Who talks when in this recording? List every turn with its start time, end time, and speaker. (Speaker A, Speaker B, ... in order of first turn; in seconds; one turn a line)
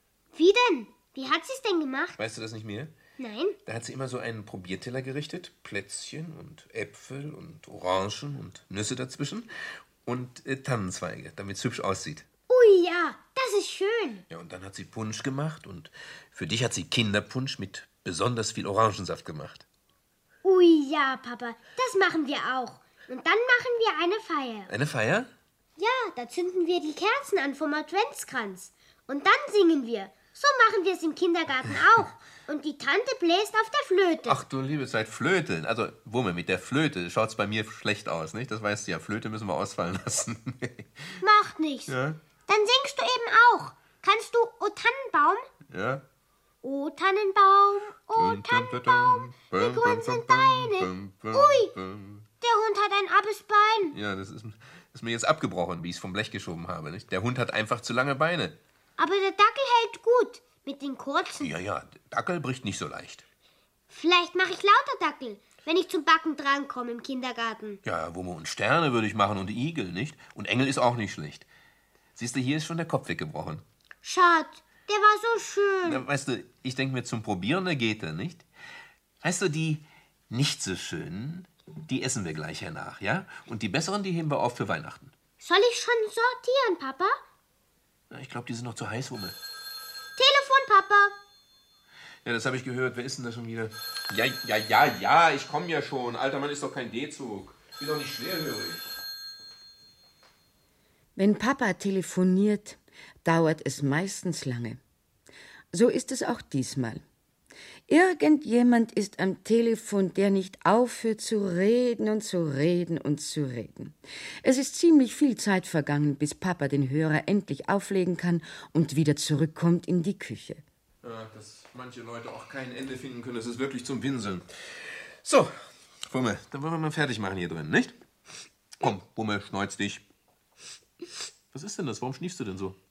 Speaker A: 0.3-2.2
Speaker B: 2.2-2.9
Speaker A: 3.2-3.6
Speaker B: 3.6-9.5
Speaker B: 10.0-12.2
Speaker A: 12.5-14.2
Speaker B: 14.3-19.6
Speaker A: 20.4-24.7
Speaker B: 24.7-25.3
Speaker A: 25.8-34.4
Speaker B: 34.2-41.2
Speaker A: 41.2-41.9
Speaker B: 41.9-42.2
Speaker A: 42.5-45.5
Speaker B: 45.7-46.0
Speaker A: 46.6-51.7
Speaker B: 48.1-52.2
Speaker A: 52.4-54.0
Speaker B: 53.9-58.6
Speaker A: 59.0-61.5
Speaker B: 61.4-63.2
Speaker A: 63.9-67.8
Speaker B: 67.8-71.5
Speaker B: 72.1-73.6
Speaker A: 74.0-76.0
Speaker B: 75.8-78.4
Speaker B: 79.2-85.1
Speaker A: 85.4-87.2
Speaker B: 88.1-89.3
Speaker A: 90.2-91.1
Speaker B: 92.2-98.9
Speaker C: 101.2-104.8
Speaker C: 105.7-107.0
Speaker C: 107.9-120.6
Speaker B: 121.0-127.9
Speaker B: 128.8-130.0
Speaker B: 131.5-132.8